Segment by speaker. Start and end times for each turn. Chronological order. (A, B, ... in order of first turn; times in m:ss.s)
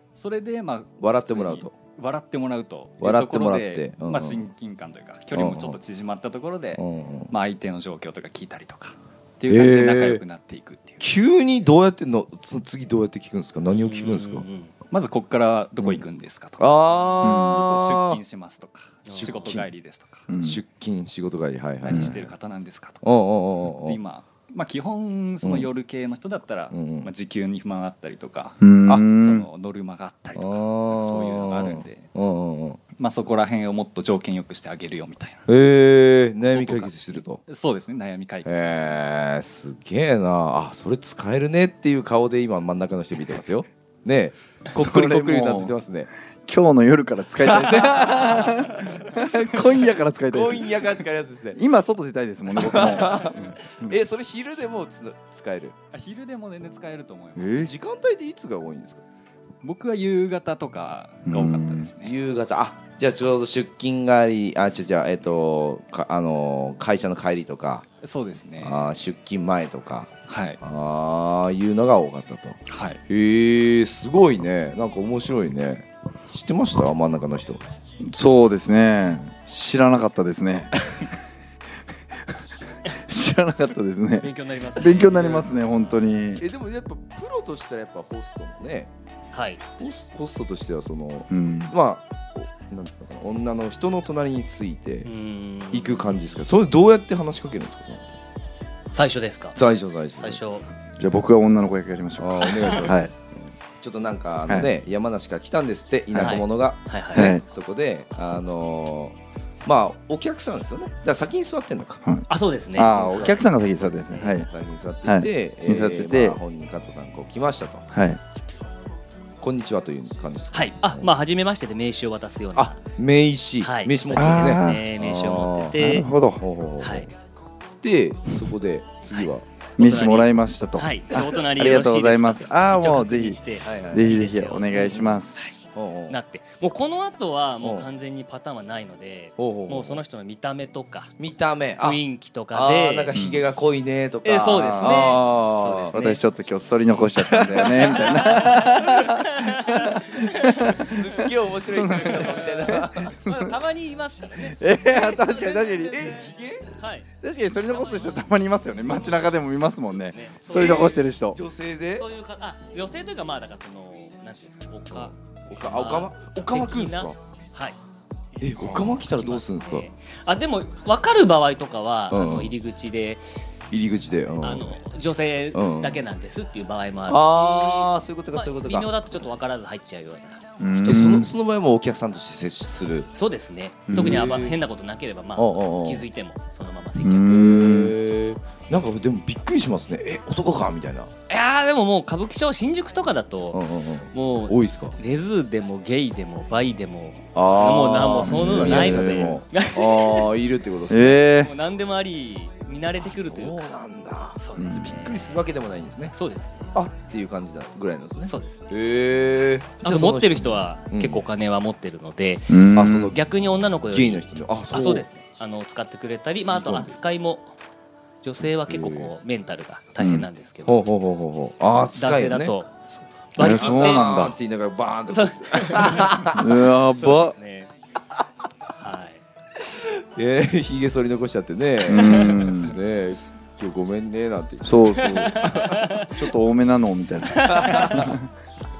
0:00.2-0:11.1 A
0:01.0-0:01.8 B
0:03.0-0:04.5 B
0:05.3-0:05.8 B
0:06.8-0:07.3 B
0:09.5-0:10.2 B
0:11.0-0:14.5 B
0:13.7-0:14.7 C
0:14.9-0:16.7 A
0:15.8-0:16.0 B
0:16.6-0:18.2 B
0:17.2-0:17.6 D
0:17.4-0:20.3 A
0:19.1-0:19.5 C
0:19.1-0:19.7 B
0:20.3-0:20.6 D
0:20.4-0:22.3 B
0:21.8-0:32.1 A
0:23.0-0:24.0 B
0:25.4-0:25.7 B
0:26.7-0:27.1 B
0:28.6-0:29.5 D
0:30.4-0:32.8 B
0:33.0-0:35.4 A
0:35.5-0:37.4 B
0:36.5-0:39.0 A
0:38.4-0:46.1 B
0:44.7-0:45.8 D
0:46.4-0:51.0 D
0:47.4-0:48.4 B
0:50.3-0:51.6 B
0:51.5-0:54.0 D
0:52.5-0:55.8 B
0:55.9-0:57.6 A
0:57.4-0:57.7 D
0:57.6-0:59.0 B
0:59.6-1:02.2 A
1:01.3-1:01.9 D
1:02.0-1:07.9 B
1:08.0-1:08.9 A
1:08.6-1:17.6 B
1:10.3-1:10.6 A
1:12.7-1:13.0 A
1:18.0-1:20.8 D
1:22.9-1:26.4 D
1:24.2-1:25.5 C
1:25.0-1:25.5 B
1:26.4-1:28.9 B
1:29.3-1:29.6 C
1:29.8-1:35.1 B
1:31.3-1:31.8 D
1:35.0-1:36.3 C
1:35.7-1:38.1 B
1:38.9-1:39.6 C
1:39.6-1:40.4 B
1:40.1-1:40.7 C
1:41.0-1:43.1 D
1:42.2-1:52.0 B
1:46.1-1:47.3 C
1:47.1-1:47.4 D
1:52.0-1:54.5 D
1:52.3-1:53.4 C
1:53.2-1:57.8 B
1:55.0-1:56.4 D
1:57.9-1:58.2 D
1:59.4-2:01.1 B
2:00.5-2:02.8 C
2:02.6-2:07.1 B
2:03.6-2:06.1 C
2:04.1-2:04.8 D
2:05.8-2:06.4 D
2:06.8-2:07.1 C
2:07.8-2:09.4 B
2:09.1-2:21.1 C
2:09.8-2:15.4 D
2:13.6-2:14.2 B
2:14.7-2:15.2 B
2:15.8-2:16.2 B
2:17.6-2:17.9 B
2:19.4-2:20.0 B
2:21.2-2:22.0 B
2:21.8-2:23.1 C
2:22.5-2:25.9 B
2:23.1-2:23.4 D
2:24.2-2:26.2 C
2:24.5-2:25.2 D
2:25.9-2:33.4 D
2:26.9-2:28.2 B
2:27.6-2:30.6 C
2:30.6-2:33.2 B
2:32.0-2:37.1 C
2:34.4-2:36.1 D
2:35.9-2:36.7 B
2:37.2-2:41.4 D
2:37.7-2:39.3 C
2:39.9-2:41.0 C
2:40.4-2:42.1 B
2:41.9-2:47.8 C
2:44.9-2:47.2 B
2:48.4-2:49.9 B
2:48.6-2:48.9 D
2:48.9-2:53.4 C
2:52.1-2:52.5 B
2:53.7-2:54.8 B
2:54.4-3:01.0 C
2:55.5-2:56.0 B
2:57.1-2:59.3 B
3:00.6-3:01.3 D
3:00.8-3:03.1 B
3:03.1-3:07.7 C
3:03.9-3:04.3 D
3:03.9-3:04.6 B
3:05.4-3:06.1 B
3:07.0-3:08.0 D
3:07.3-3:11.1 B
3:11.3-3:20.3 C
3:13.5-3:15.0 B
3:17.4-3:21.2 B
3:18.2-3:19.4 D
3:20.9-3:21.5 D
3:21.4-3:23.7 C
3:23.0-3:26.2 B
3:24.4-3:25.4 C
3:24.6-3:25.1 D
3:26.1-3:26.8 C
3:26.7-3:31.2 B
3:28.3-3:28.7 C
3:29.8-3:37.6 C
3:32.5-3:33.2 D
3:32.7-3:33.2 B
3:33.8-3:35.1 B
3:36.4-3:37.0 B
3:38.2-3:40.8 C
3:38.7-3:39.1 B
3:40.0-3:40.3 D
3:40.6-3:42.6 B
3:41.9-3:44.3 C
3:43.4-3:44.4 D
3:43.4-3:46.6 B
3:45.1-3:47.7 C
3:46.3-3:47.4 D
3:48.8-3:49.2 C
3:49.6-3:55.9 B
3:51.8-3:52.8 D
3:54.6-3:55.4 D
3:55.0-3:56.2 C
3:56.1-3:58.3 D
3:57.4-3:58.2 B